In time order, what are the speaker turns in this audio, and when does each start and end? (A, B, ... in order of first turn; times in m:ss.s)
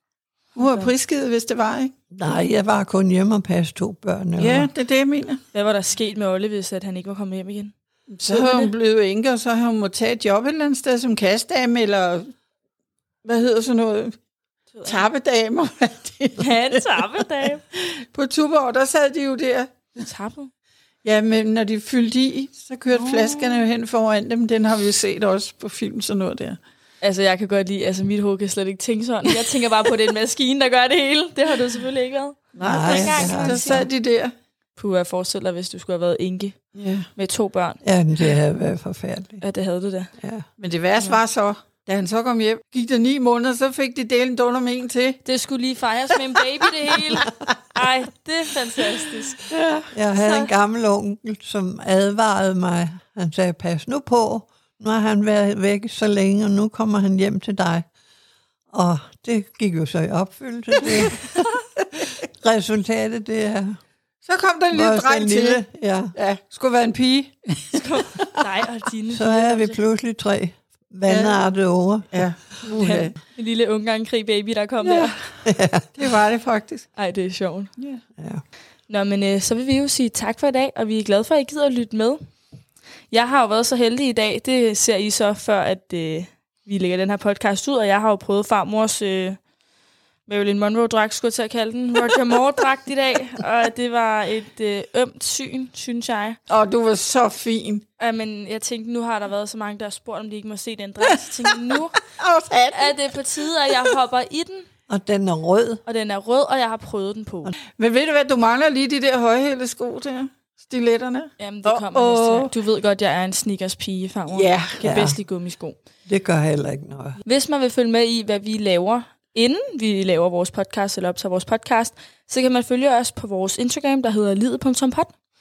0:00.6-0:01.9 A
0:00.6-0:00.9 B
0:02.1-0:04.7 C
0:04.4-0:05.4 A
0:05.5-0:07.7 B
0:08.1-0:12.3 A
0:08.3-0:08.7 B
0:13.2-0:14.2 A
0:14.8-0:15.0 B
0:14.8-0:19.7 A
0:16.4-0:17.6 B
0:20.0-0:20.5 B
0:21.0-0:26.6 A
0:22.9-0:23.7 B
0:27.0-0:33.9 B
0:32.5-0:34.3 A
0:32.6-0:33.9 C
0:34.8-0:36.6 B
0:36.7-0:37.1 A
0:37.2-0:37.8 B
0:37.8-0:39.4 C
0:39.4-0:40.1 B
0:40.2-0:40.4 C
0:40.6-0:45.2 A
0:45.2-0:49.4 B
0:49.5-0:49.9 A
0:49.9-0:57.9 C
0:50.2-0:50.5 B
0:58.7-1:01.3 C
1:00.8-1:01.2 A
1:02.3-1:03.8 C
1:04.2-1:05.6 A
1:04.7-1:06.1 C
1:06.1-1:08.4 A
1:07.7-1:09.8 B
1:09.1-1:13.0 C
1:11.0-1:11.4 A
1:12.1-1:13.2 A
1:12.8-1:15.2 B
1:14.8-1:15.4 A
1:15.4-1:16.0 C
1:15.9-1:16.9 A
1:17.0-1:17.7 B
1:18.9-1:22.2 B
1:23.1-1:29.4 B
1:30.3-1:36.4 B
1:36.5-1:37.8 A
1:38.0-1:42.1 B
1:41.4-1:43.8 A
1:42.7-1:44.7 B
1:44.9-1:45.8 C
1:45.9-1:47.5 B
1:47.7-1:52.5 A
1:51.4-1:55.8 B
1:54.3-1:54.8 A
1:54.8-1:55.2 C
1:56.1-1:57.2 C
1:57.2-2:05.1 B